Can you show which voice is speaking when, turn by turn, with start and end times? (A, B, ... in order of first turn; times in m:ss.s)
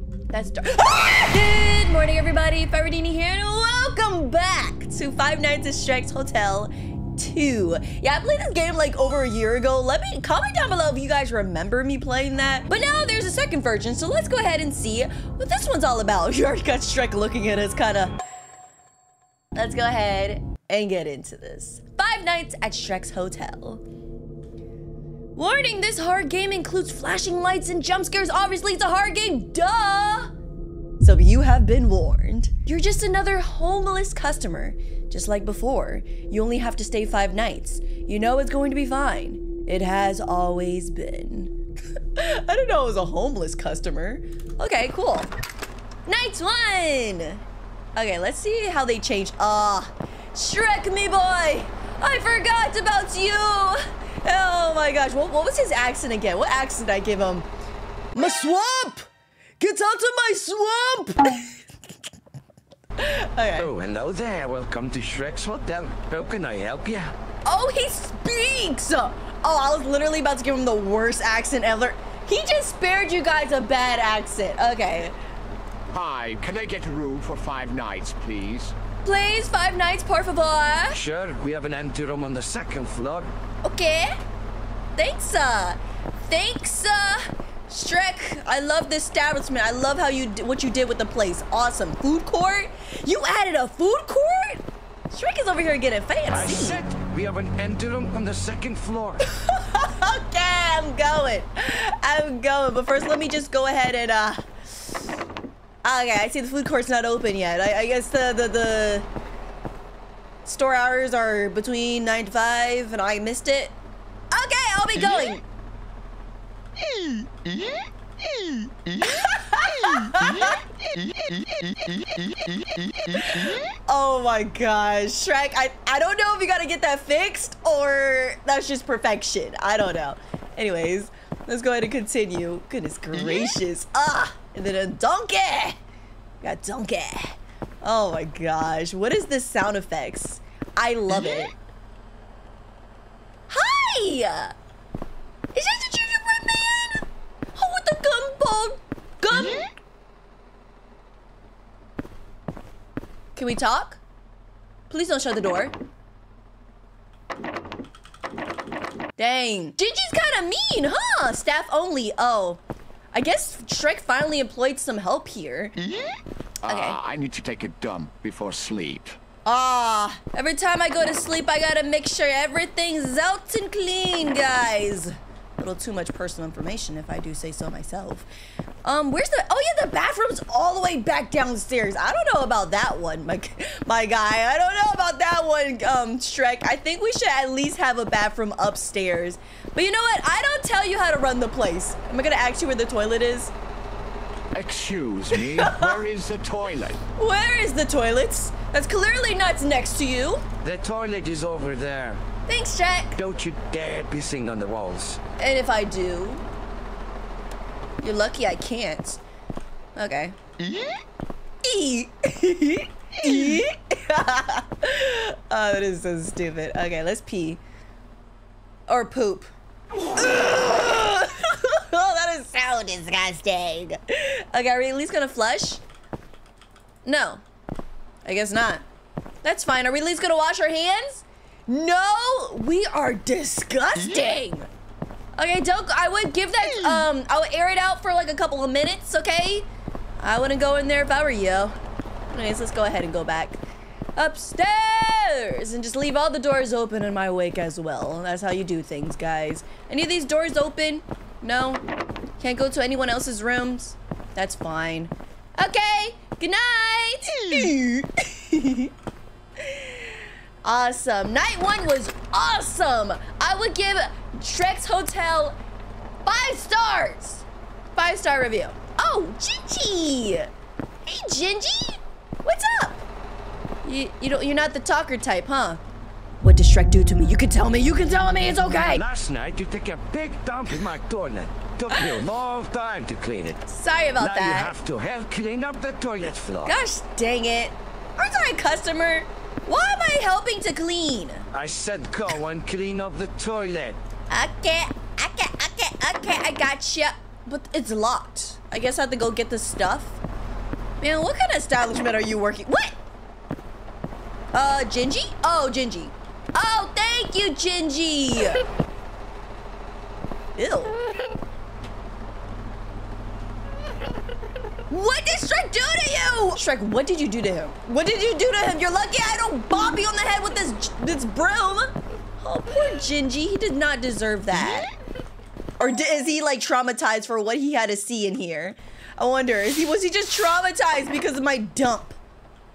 0:00.3-0:18.1 A
0:19.5-0:23.8 A
0:25.3-0:30.3 A
0:31.0-0:45.3 A
0:46.0-0:47.4 A
0:47.9-0:57.5 A
0:58.1-0:59.1 A
0:59.6-1:01.6 A
1:03.0-1:03.7 A
1:03.6-1:07.1 B
1:07.4-1:15.1 A
1:15.9-1:18.7 C
1:19.0-1:21.0 A
1:20.9-1:23.3 B
1:23.6-1:24.1 A
1:25.0-1:36.8 A
1:36.3-1:39.2 B
1:39.3-1:44.5 A
1:45.8-1:49.1 A
1:50.4-1:53.7 A
1:54.3-1:55.4 A
1:59.0-2:00.6 A
2:02.8-2:15.8 A
2:16.4-2:21.6 A
2:23.5-2:24.5 A
2:25.5-2:29.6 A
2:33.3-2:34.0 A
2:34.9-2:35.7 A
2:39.2-2:42.6 A
2:43.1-2:45.7 A
2:46.6-2:49.2 C
2:46.7-2:47.0 A
2:49.4-2:58.3 A
2:58.8-3:13.5 A
3:14.5-3:17.0 C
3:15.5-3:15.9 A
3:17.2-3:20.4 A
3:20.6-3:22.2 B
3:22.5-3:23.2 A
3:23.2-3:25.2 B
3:25.4-3:26.4 A
3:28.0-3:29.2 A
3:30.0-3:30.3 A
3:31.6-3:37.6 A
3:38.9-3:39.5 A
3:40.1-3:45.8 A
3:47.0-3:47.4 A
3:48.2-3:48.8 A
3:49.4-3:54.7 A
3:55.4-3:59.7 A
4:00.2-4:01.7 A
4:02.3-4:03.6 A
4:04.2-4:11.8 A
4:12.4-4:18.9 A
4:19.6-4:25.6 A
4:26.2-4:30.5 A
4:31.0-4:33.0 A
4:33.8-4:35.8 A
4:36.4-4:39.0 A
4:38.8-4:43.6 B
4:41.9-4:42.2 A
4:43.7-4:44.7 A
4:44.2-4:46.8 B
4:46.6-4:51.4 A
4:51.5-4:54.0 B
4:54.3-5:00.2 A
5:01.0-5:02.9 A
5:04.5-5:08.6 A
5:10.5-5:11.0 A
5:14.9-5:24.9 A
5:25.8-5:32.2 A